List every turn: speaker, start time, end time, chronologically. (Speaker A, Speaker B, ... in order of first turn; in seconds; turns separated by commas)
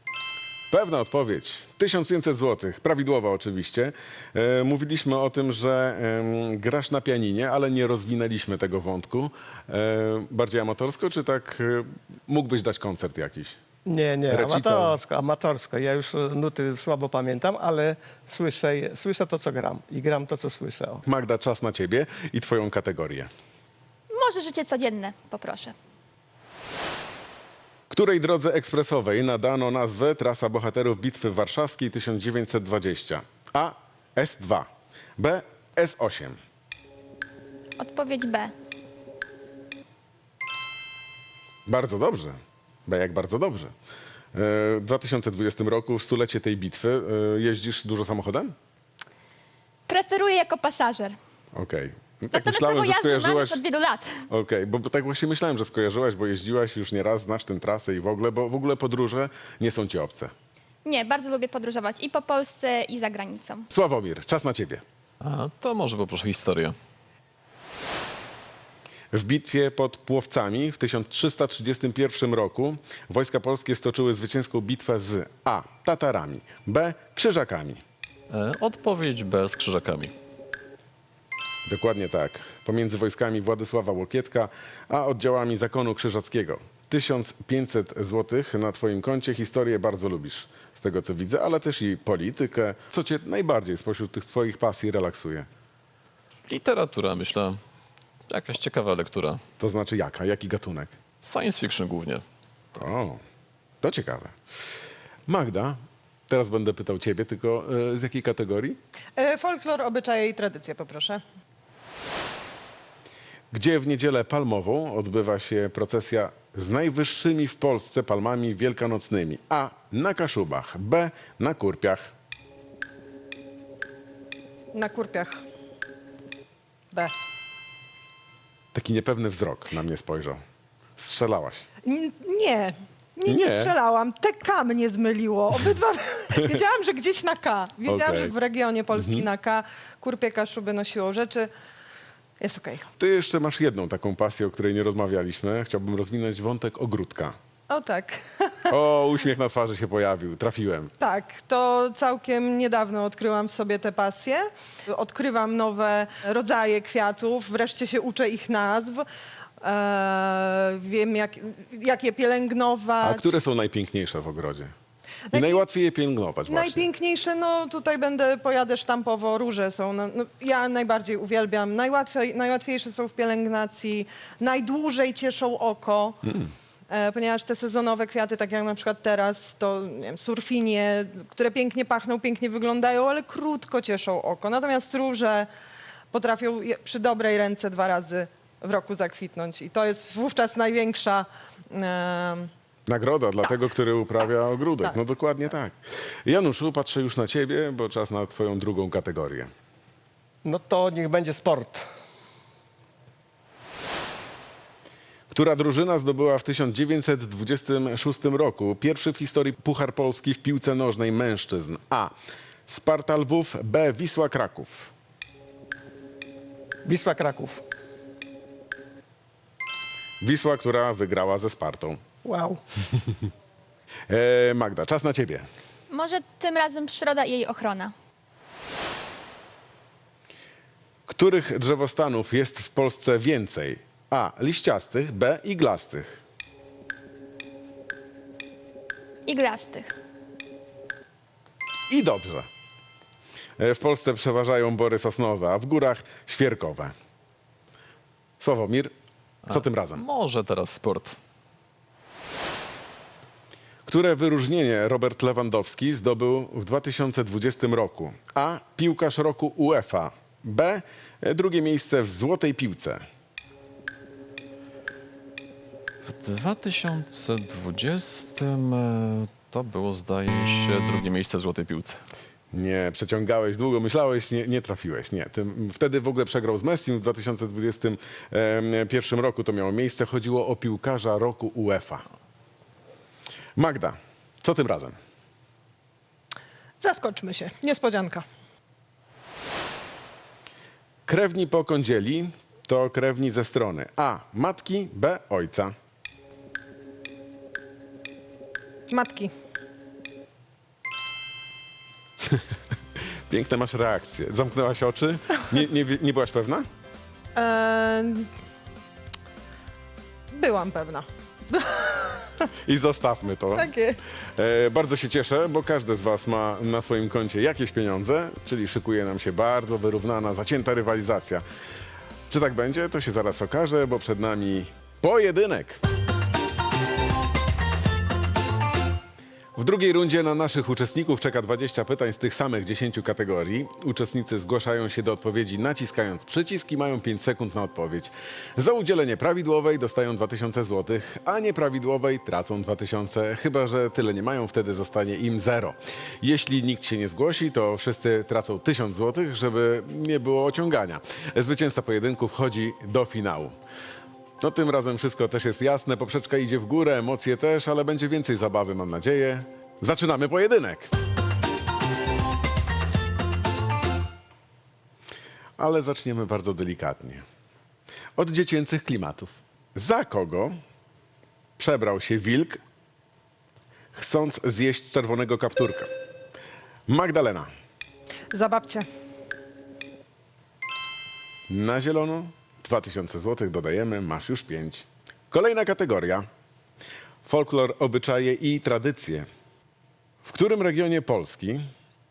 Speaker A: 0.7-13.6, Speaker B: 13.8-21.0, Speaker A: 14.3-15.0, Speaker A: 21.1-23.3, Speaker C: 24.1-25.7, Speaker A: 27.9-36.4, Speaker C: 37.8-38.5, Speaker A: 41.7-43.7, Speaker A: 44.3-48.5, Speaker C: 49.9-51.1, Speaker A: 51.5-53.6, Speaker C: 52.3-54.2, Speaker A: 54.3-60.3, Speaker C: 60.8-63.7, Speaker A: 63.7-64.8, Speaker D: 65.2-66.7, Speaker A: 69.1-77.8, Speaker D: 78.3-80.1, Speaker A: 81.7-95.5, Speaker D: 96.5-97.6, Speaker D: 98.3-99.4, Speaker A: 99.6-101.0, Speaker D: 101.2-102.2, Speaker A: 102.7-103.2, Speaker A: 103.8-104.3, Speaker A: 105.3-108.8, Speaker E: 109.2-111.2, Speaker A: 113.5-122.1, Speaker E: 124.7-125.4, Speaker A: 128.7-130.4, Speaker A: 131.0-131.7, Speaker E: 131.8-141.5, Speaker A: 133.3-133.7, Speaker A: 136.3-136.6, Speaker A: 137.8-138.3, Speaker A: 138.9-139.3, Speaker E: 142.4-142.9, Speaker A: 143.0-147.3, Speaker E: 147.7-148.7, Speaker A: 148.7-150.9, Speaker E: 151.0-159.1, Speaker E: 159.6-163.3, Speaker A: 163.0-164.7, Speaker E: 165.3-165.6, Speaker A: 165.3-166.9, Speaker E: 166.5-176.2, Speaker A: 176.2-176.5, Speaker E: 176.9-185.5, Speaker E: 186.1-192.5, Speaker A: 192.9-199.5, Speaker B: 200.4-201.9, Speaker A: 205.3-212.1, Speaker A: 212.7-214.9, Speaker B: 216.8-217.6, Speaker A: 220.2-222.0, Speaker B: 222.2-222.6, Speaker A: 224.1-225.5, Speaker C: 225.9-227.9, Speaker A: 231.1-236.2, Speaker C: 239.2-239.9, Speaker A: 241.9-242.5, Speaker A: 243.6-246.9, Speaker A: 248.4-248.9, Speaker A: 249.5-250.0, Speaker D: 249.5-251.2, Speaker A: 253.8-263.0, Speaker D: 266.0-272.0, Speaker A: 272.5-282.0, Speaker A: 283.6-284.9, Speaker E: 286.8-288.2, Speaker A: 291.1-295.7, Speaker E: 298.9-299.3, Speaker A: 303.3-306.6, Speaker E: 307.3-308.3, Speaker E: 310.3-312.5, Speaker A: 312.6-313.7, Speaker E: 313.6-314.0, Speaker A: 314.4-321.4, Speaker A: 322.3-325.8, Speaker A: 329.6-353.6, Speaker A: 354.4-360.9, Speaker A: 365.6-367.2, Speaker A: 368.1-370.6, Speaker A: 371.6-372.6, Speaker A: 373.9-375.9, Speaker A: 376.9-377.5, Speaker E: 378.3-378.9, Speaker A: 381.5-386.2, Speaker A: 387.2-389.3, Speaker A: 390.2-391.6